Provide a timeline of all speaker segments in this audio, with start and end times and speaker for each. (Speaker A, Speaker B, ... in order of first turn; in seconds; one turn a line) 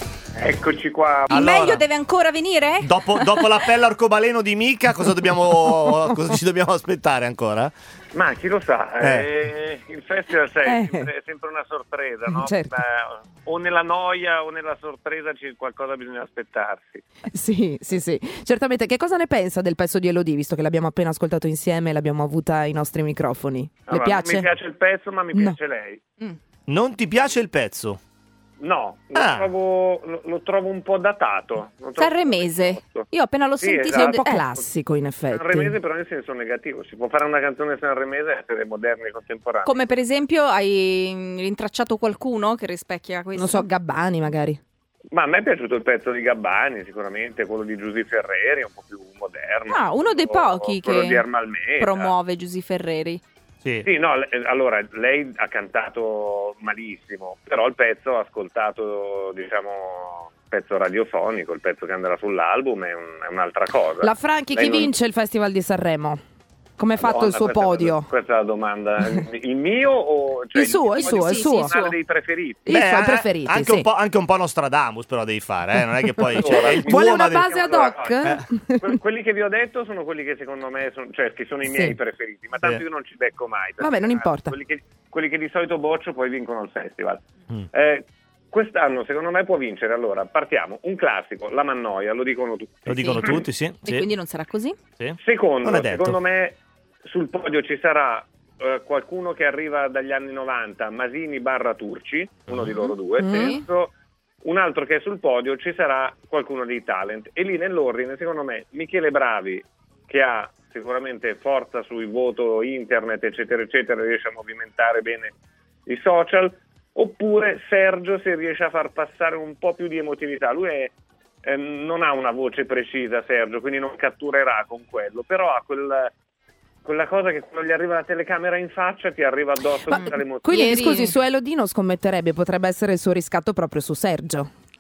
Speaker A: 0.4-1.3
Speaker B: 1.3-3.5
Speaker C: 1.3-1.8
Speaker C: 2.8-7.7
Speaker A: 8.1-17.0
Speaker C: 9.0-9.3
Speaker D: 10.7-11.1
Speaker D: 12.3-12.7
Speaker D: 17.3-24.5
Speaker A: 23.9-26.0
Speaker C: 26.7-28.0
Speaker A: 28.6-33.1
Speaker C: 29.1-29.5
Speaker B: 32.0-34.4
Speaker A: 33.6-34.7
Speaker D: 33.9-35.7
Speaker A: 35.3-39.8
Speaker B: 39.6-43.6
Speaker D: 43.4-44.6
Speaker A: 45.1-52.1
Speaker B: 49.7-51.3
Speaker B: 51.8-53.2
Speaker A: 53.8-64.9
Speaker D: 64.0-66.2
Speaker D: 66.8-68.1
Speaker A: 67.0-72.7
Speaker D: 70.5-71.7
Speaker B: 70.9-72.0
Speaker D: 72.7-73.9
Speaker C: 72.7-77.5
Speaker D: 76.1-79.0
Speaker A: 76.3-93.4
Speaker D: 81.7-82.0
Speaker D: 83.8-84.5
Speaker C: 92.9-94.1
Speaker B: 92.9-94.8
Speaker C: 95.0-96.2
Speaker A: 95.2-103.9
Speaker B: 102.7-103.6
Speaker D: 103.2-103.5
Speaker A: 104.4-115.3
Speaker A: 115.9-120.9
Speaker A: 121.4-126.1
Speaker A: 126.8-130.8
Speaker D: 129.9-134.5
Speaker B: 130.5-131.2